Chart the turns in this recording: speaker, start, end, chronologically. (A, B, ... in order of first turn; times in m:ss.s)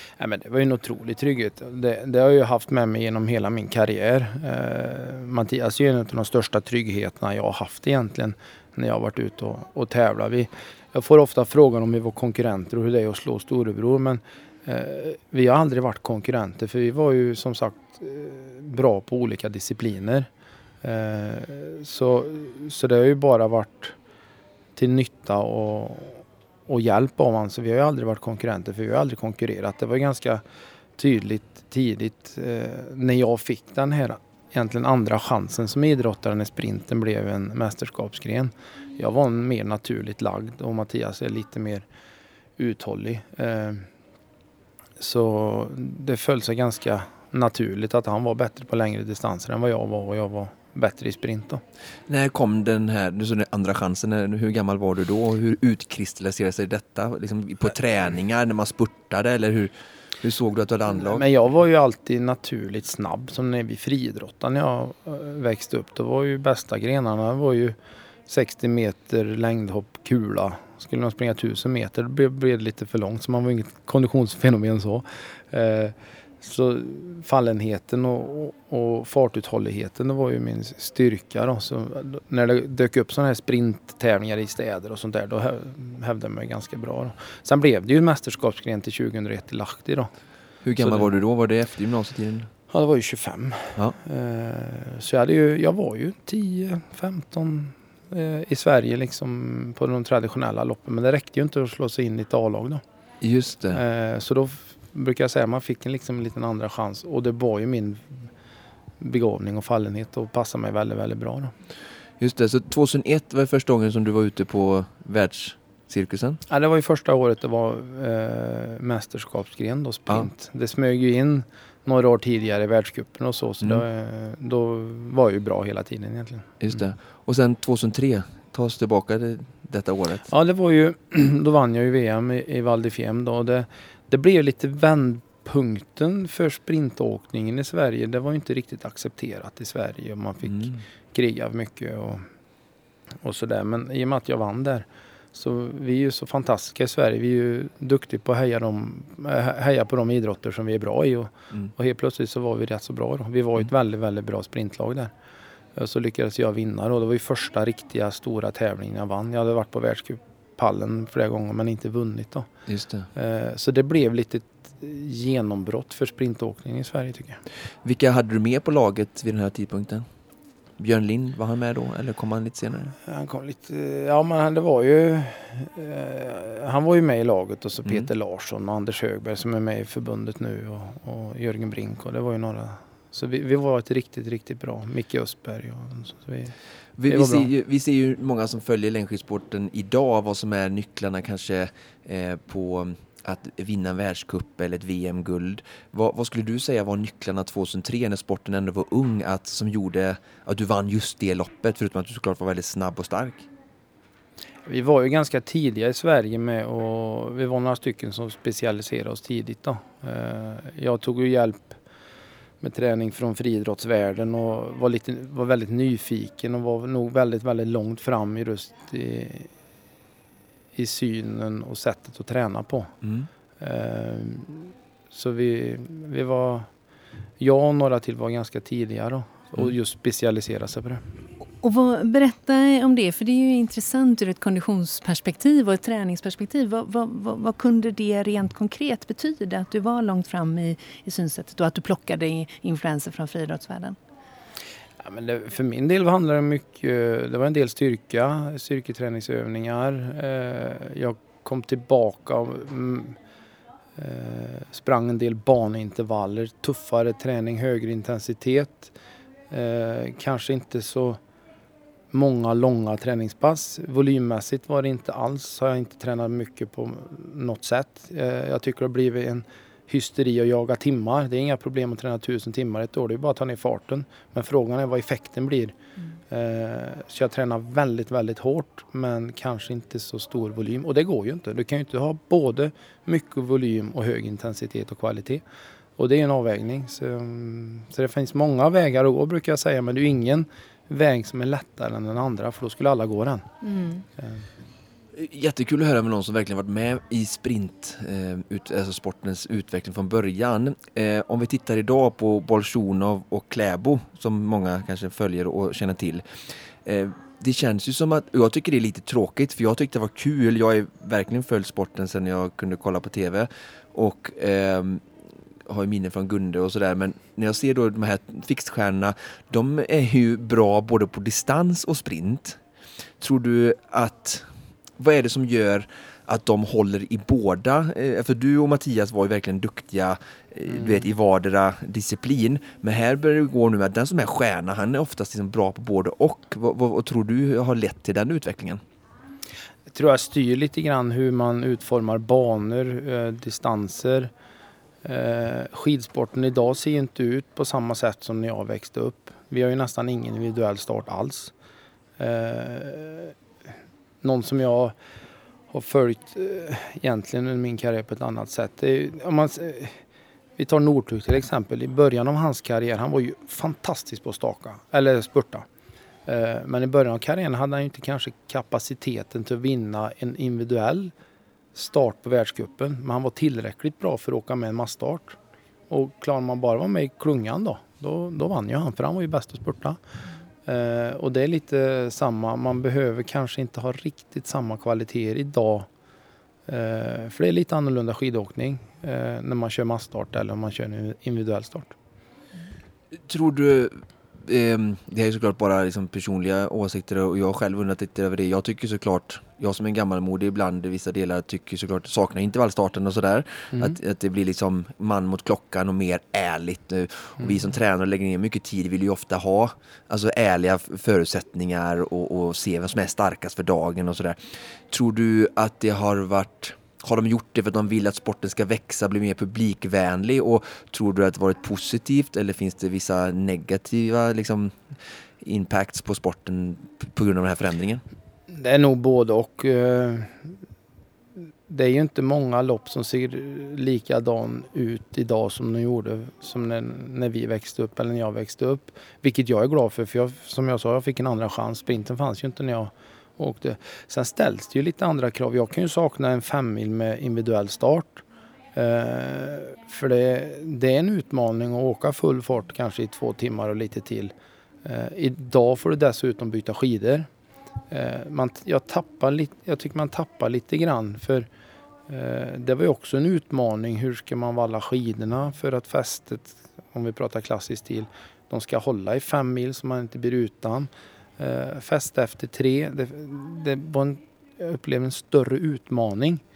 0:00.2-0:20.3 A
0:20.8-0:24.0 A
0:24.8-0:30.4 A
0:31.0-0:41.9 A
0:42.6-0:43.9 A
0:45.0-0:51.6 A
0:52.1-1:01.2 B
1:00.9-1:07.8 A
1:08.3-1:30.1 A
1:30.6-1:32.5 B
1:30.8-1:31.1 A
1:32.7-1:42.8 A
1:43.2-1:43.8 B
1:43.7-1:48.3 A
1:49.0-1:51.5 A
1:52.2-1:56.4 B
1:56.5-2:06.5 A
2:06.6-2:10.3 B
2:10.3-2:22.3 A
2:23.2-2:35.1 A
2:35.8-2:42.5 A
2:42.7-2:43.1 B
2:43.2-2:47.4 A
2:47.8-2:50.0 B
2:50.8-2:52.9 B
2:53.1-3:06.5 A
3:07.0-3:23.5 B
3:07.1-3:07.5 A
3:24.7-3:31.8 A
3:32.6-3:39.5 A
3:40.8-3:42.9 A
3:43.0-3:43.3 B
3:43.6-3:46.7 A
3:47.4-3:51.0 A
3:51.6-4:04.0 C
4:05.0-4:13.2 A
4:14.0-4:19.0 A
4:19.5-4:21.2 A
4:22.1-4:35.7 A
4:36.3-4:45.4 A
4:46.0-4:53.5 A
4:55.1-5:15.0 B
5:15.7-5:22.6 B
5:23.2-5:24.5 B
5:25.0-5:38.8 B
5:39.9-5:44.3 A
5:45.0-5:51.5 A
5:52.2-5:53.3 A
5:54.2-5:55.0 A
5:55.7-6:00.0 A
6:00.6-6:05.7 A
6:06.3-6:11.1 A
6:11.8-6:15.4 A
6:15.9-6:20.0 A
6:20.7-6:25.9 A
6:26.7-6:32.0 A
6:33.2-6:54.4 B
6:54.9-7:04.8 B
7:05.4-7:08.0 B
7:08.5-7:10.5 A
7:11.7-7:28.2 A
7:28.8-7:34.3 A
7:34.8-7:37.3 A
7:37.9-7:41.5 A
7:42.1-7:56.4 A